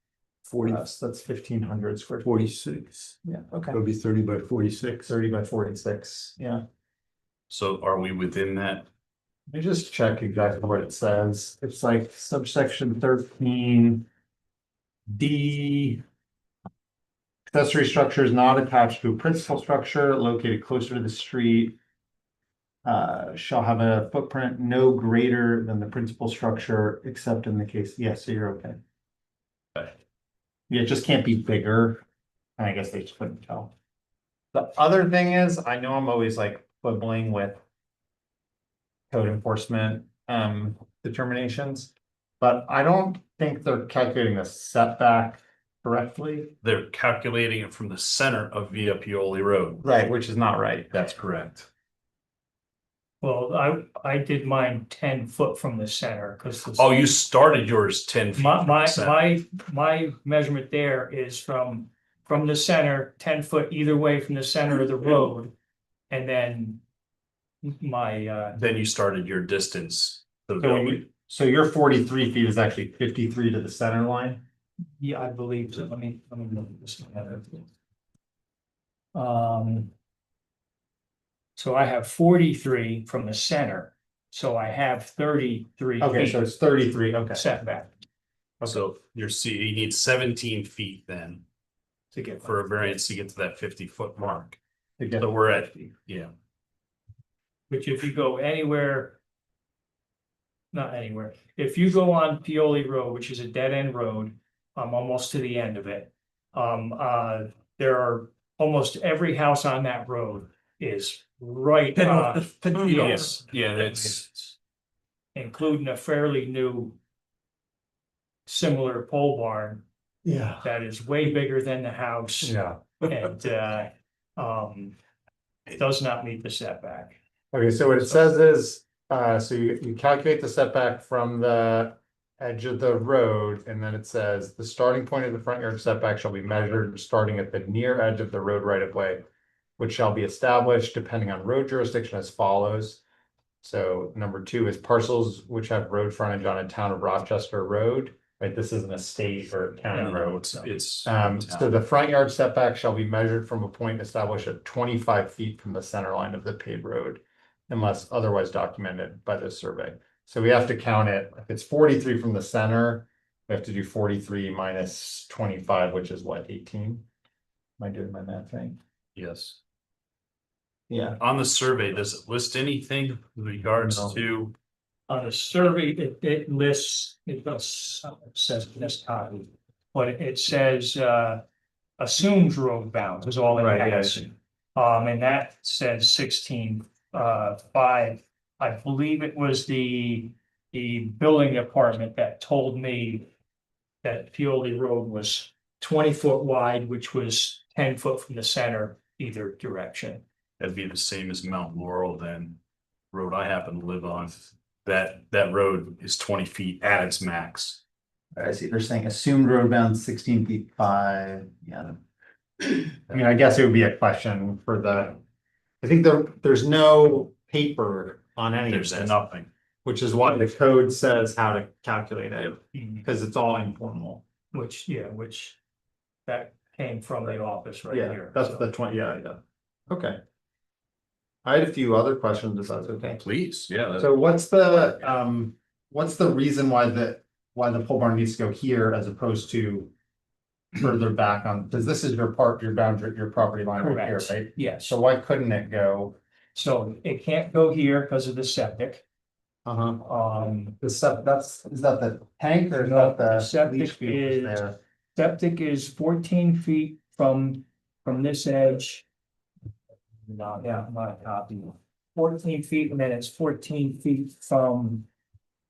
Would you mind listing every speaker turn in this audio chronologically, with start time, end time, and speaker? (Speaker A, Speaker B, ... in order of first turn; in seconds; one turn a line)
Speaker A: 0.5-0.8
Speaker B: 0.6-2.3
Speaker A: 2.2-3.1
Speaker B: 3.2-3.8
Speaker A: 3.7-5.1
Speaker B: 5.0-6.6
Speaker C: 7.5-8.9
Speaker B: 9.5-14.1
Speaker B: 15.1-16.0
Speaker B: 17.5-21.8
Speaker B: 22.8-28.8
Speaker B: 30.7-32.0
Speaker B: 32.6-33.7
Speaker B: 34.5-37.6
Speaker B: 39.1-46.5
Speaker C: 46.6-49.8
Speaker B: 49.8-51.1
Speaker C: 50.9-51.7
Speaker D: 53.2-57.1
Speaker C: 56.8-59.2
Speaker D: 58.3-65.5
Speaker D: 66.1-66.8
Speaker D: 67.6-68.6
Speaker C: 68.6-71.0
Speaker B: 70.6-74.4
Speaker D: 75.0-77.7
Speaker D: 79.1-79.9
Speaker D: 81.5-86.5
Speaker B: 86.0-87.5
Speaker D: 87.3-87.9
Speaker C: 88.6-91.4
Speaker D: 92.1-93.0
Speaker C: 92.4-94.6
Speaker B: 95.0-95.3
Speaker C: 95.2-96.3
Speaker D: 97.7-99.2
Speaker D: 100.7-114.1
Speaker B: 112.3-113.0
Speaker C: 112.8-114.5
Speaker D: 115.3-117.0
Speaker D: 118.5-119.8
Speaker B: 120.2-120.6
Speaker D: 120.6-125.0
Speaker B: 122.4-123.0
Speaker D: 125.7-127.2
Speaker B: 127.5-139.2
Speaker B: 139.8-143.0
Speaker B: 143.6-150.5
Speaker D: 149.9-150.8
Speaker C: 149.9-151.8
Speaker B: 151.0-167.0
Speaker B: 167.8-168.8
Speaker C: 169.2-169.6
Speaker B: 170.9-171.2
Speaker C: 171.2-174.5
Speaker B: 173.8-174.2
Speaker D: 175.1-181.4
Speaker D: 182.0-193.3
Speaker B: 183.6-184.2
Speaker D: 194.0-200.2
Speaker C: 200.6-202.6
Speaker C: 203.1-207.8
Speaker B: 208.3-212.0
Speaker B: 212.6-215.2
Speaker B: 215.8-219.2
Speaker C: 218.7-219.5
Speaker B: 219.8-224.2
Speaker D: 222.7-223.0
Speaker D: 224.5-225.6
Speaker D: 226.2-228.7
Speaker B: 227.9-230.2
Speaker B: 231.4-233.2
Speaker C: 233.2-234.1
Speaker B: 233.9-239.9
Speaker B: 240.8-246.2
Speaker D: 243.8-245.0
Speaker D: 246.5-249.0
Speaker B: 249.6-250.1
Speaker D: 250.0-250.8
Speaker B: 250.8-254.8
Speaker D: 252.7-259.0
Speaker D: 260.2-265.1
Speaker B: 260.6-260.9